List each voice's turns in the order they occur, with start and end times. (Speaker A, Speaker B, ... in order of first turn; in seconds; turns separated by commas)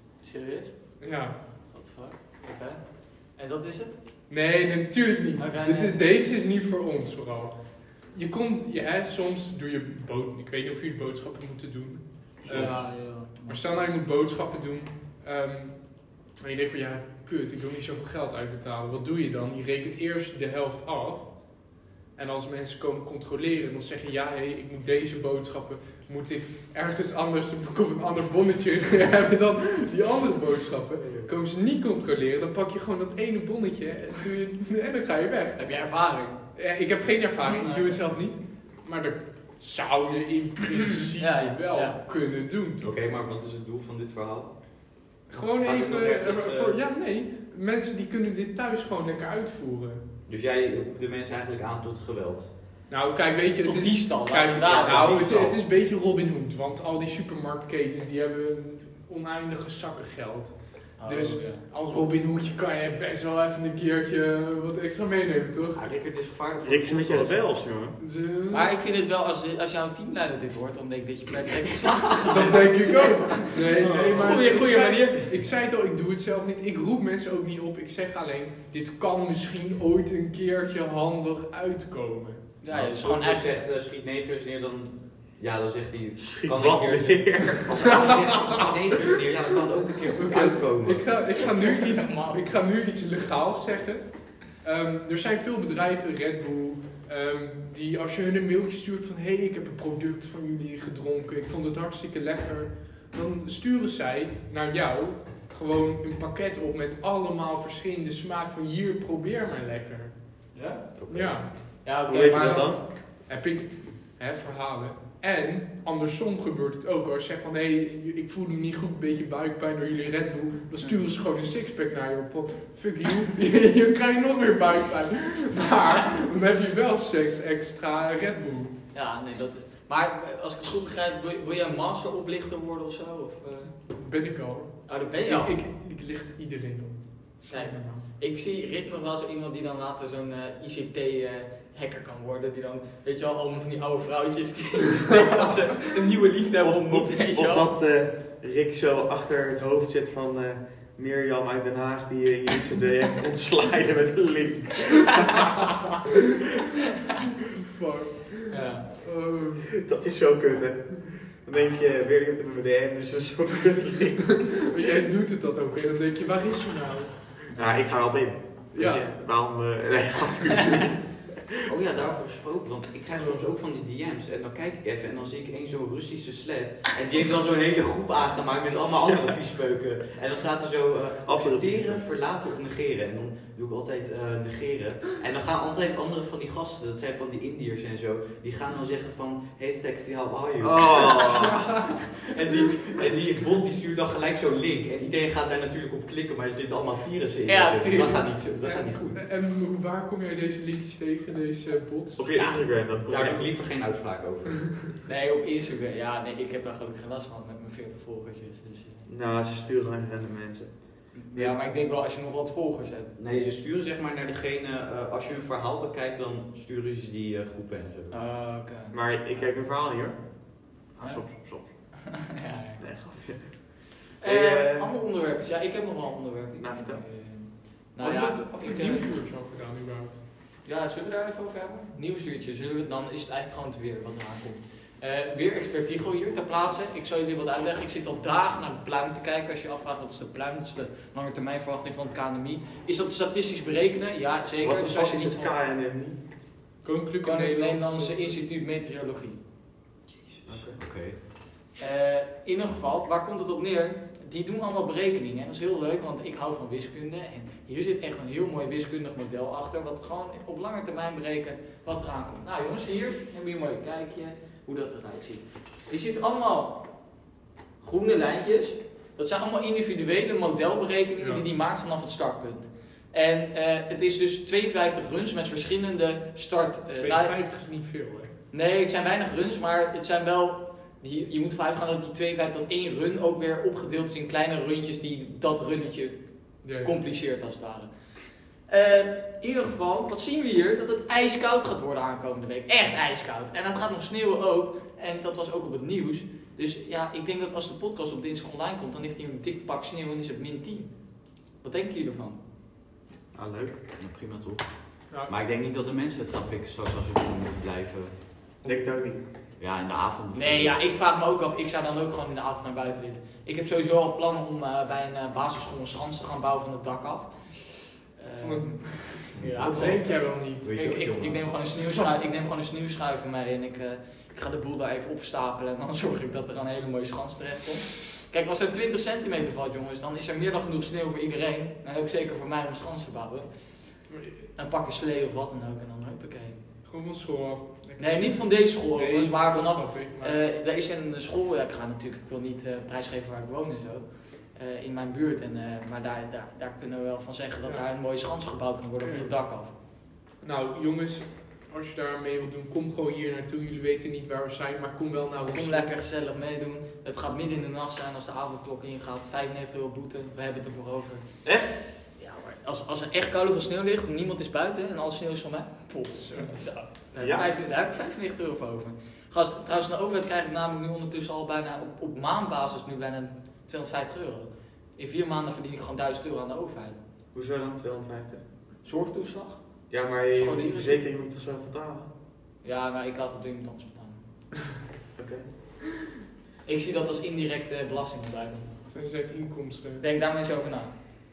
Speaker A: 0.2-4.0, Speaker B: 1.0-1.4, Speaker B: 4.3-42.9, Speaker A: 5.4-6.0, Speaker A: 12.4-13.9, Speaker C: 12.5-12.8, Speaker D: 31.0-31.3, Speaker A: 35.5-36.4, Speaker C: 37.4-38.1, Speaker A: 41.0-42.0, Speaker C: 42.8-46.8, Speaker B: 45.3-50.0, Speaker C: 50.3-52.5, Speaker B: 52.9-65.8, Speaker A: 53.6-55.3, Speaker C: 54.7-55.6, Speaker A: 61.0-61.6, Speaker C: 65.7-67.7, Speaker D: 66.6-68.0, Speaker B: 68.0-68.7, Speaker A: 68.5-75.2, Speaker B: 72.3-82.5, Speaker C: 73.9-74.4, Speaker A: 82.6-83.5, Speaker C: 82.7-91.1, Speaker D: 86.2-87.9, Speaker A: 87.9-88.5, Speaker B: 90.1-110.5, Speaker A: 91.3-92.4, Speaker A: 110.5-110.8, Speaker C: 110.9-111.6, Speaker B: 111.1-111.5, Speaker A: 111.5-112.8, Speaker D: 112.0-112.8, Speaker B: 112.3-128.8, Speaker A: 128.9-133.8, Speaker B: 133.9-138.0, Speaker A: 134.9-135.6, Speaker A: 137.5-147.7, Speaker D: 146.6-155.9, Speaker B: 157.7-159.7, Speaker A: 158.5-158.9, Speaker D: 159.8-164.5, Speaker B: 164.5-169.2, Speaker D: 167.6-171.3, Speaker C: 171.7-191.3, Speaker B: 173.2-173.4, Speaker D: 181.2-182.0, Speaker D: 190.6-191.7, Speaker A: 191.1-191.5, Speaker A: 192.3-192.9, Speaker C: 192.8-199.2, Speaker A: 197.4-198.3, Speaker B: 198.6-202.3, Speaker D: 202.2-203.5, Speaker C: 203.1-204.9, Speaker A: 205.1-209.1, Speaker D: 209.1-211.6, Speaker A: 211.1-213.5, Speaker C: 213.2-218.2, Speaker A: 218.1-219.0, Speaker D: 218.9-222.1, Speaker A: 221.0-222.8, Speaker D: 222.8-224.9, Speaker A: 224.2-229.1, Speaker D: 226.6-227.0, Speaker B: 228.0-230.2, Speaker A: 230.6-245.5, Speaker D: 244.6-246.2, Speaker B: 246.8-248.3, Speaker A: 247.2-249.4, Speaker D: 250.5-250.8, Speaker C: 250.5-251.2, Speaker A: 251.8-267.0, Speaker A: 267.8-277.4, Speaker B: 271.2-271.4, Speaker B: 277.0-278.3, Speaker A: 278.5-302.4, Speaker B: 286.6-286.9, Speaker D: 303.3-303.8, Speaker C: 303.9-308.6, Speaker D: 308.6-309.2, Speaker C: 309.6-310.8, Speaker A: 310.3-336.6, Speaker B: 318.4-320.7, Speaker C: 319.4-321.5, Speaker B: 334.1-334.4, Speaker B: 336.8-340.4, Speaker A: 338.0-349.7, Speaker B: 349.0-349.3, Speaker B: 350.4-355.9, Speaker A: 355.4-361.2, Speaker D: 361.4-361.8, Speaker A: 362.1-377.0, Speaker B: 366.2-366.6, Speaker D: 367.2-367.5, Speaker D: 377.3-378.4, Speaker A: 378.8-381.0, Speaker D: 379.9-382.1, Speaker A: 382.6-384.2, Speaker D: 385.1-385.8, Speaker A: 386.6-388.7, Speaker B: 388.9-390.0, Speaker A: 390.0-390.9